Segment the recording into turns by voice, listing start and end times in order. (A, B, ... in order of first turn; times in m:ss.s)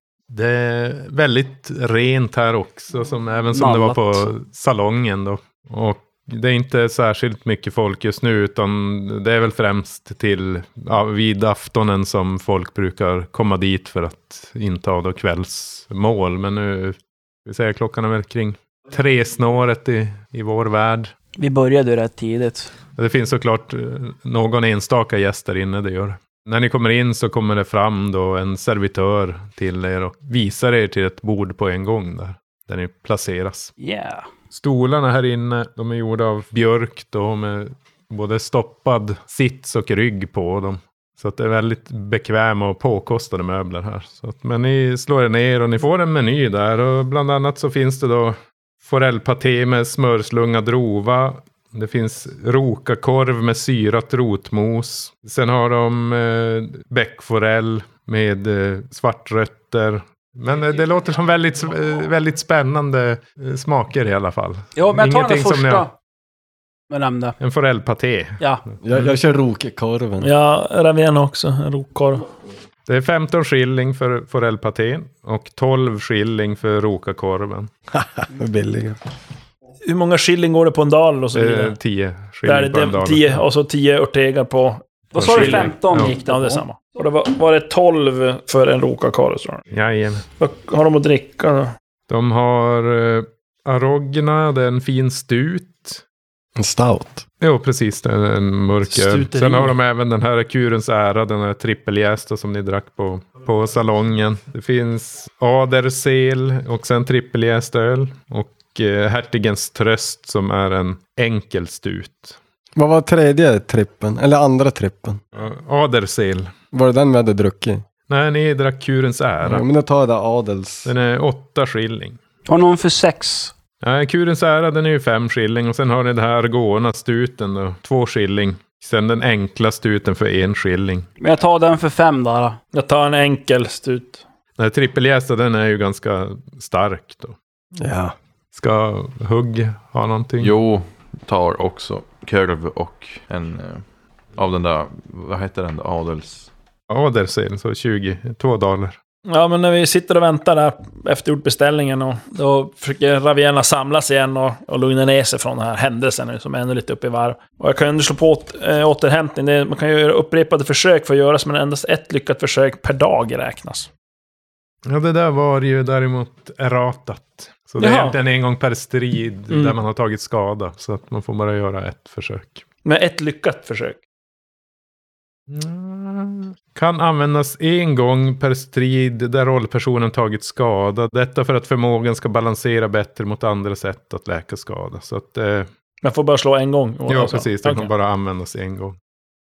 0:00.3-0:21.1 A
0:03.5-0:04.3 B
0:21.4-0:22.7 B
0:23.0-0:33.7 A
0:33.8-0:34.3 B
0:34.5-1:05.9 A
1:04.8-1:05.9 B
1:06.9-1:07.3 B
1:07.4-1:08.4 A
1:08.8-1:10.3 C
1:10.2-1:12.2 D
1:12.9-1:17.7 A
1:17.9-1:19.0 C
1:19.8-1:21.8 D
1:21.3-1:23.4 A
1:22.4-1:29.6 D
1:25.1-1:26.2 A
1:25.1-1:26.6 B
1:29.7-1:30.2 A
1:30.4-1:31.7 D
1:32.1-1:36.0 A
1:36.6-1:37.2 C
1:37.4-1:52.4 A
1:38.9-1:39.8 D
1:52.8-1:55.2 C
1:55.3-1:56.5 A
1:56.7-1:57.8 C
1:58.1-1:59.6 A
1:59.4-2:00.9 C
2:00.8-2:02.2 A
2:02.5-2:03.5 B
2:03.8-2:11.1 A
2:11.2-2:12.6 B
2:12.7-2:14.2 D
2:14.6-2:17.4 A
2:17.8-2:18.1 C
2:18.5-2:20.5 A
2:20.4-2:26.5 E
2:26.9-2:29.0 A
2:29.3-2:43.9 D
2:44.8-2:52.6 A
2:47.8-2:48.2 D
2:52.8-2:54.0 D
2:55.5-3:05.7 A
3:06.0-3:07.9 D
3:07.1-3:09.0 A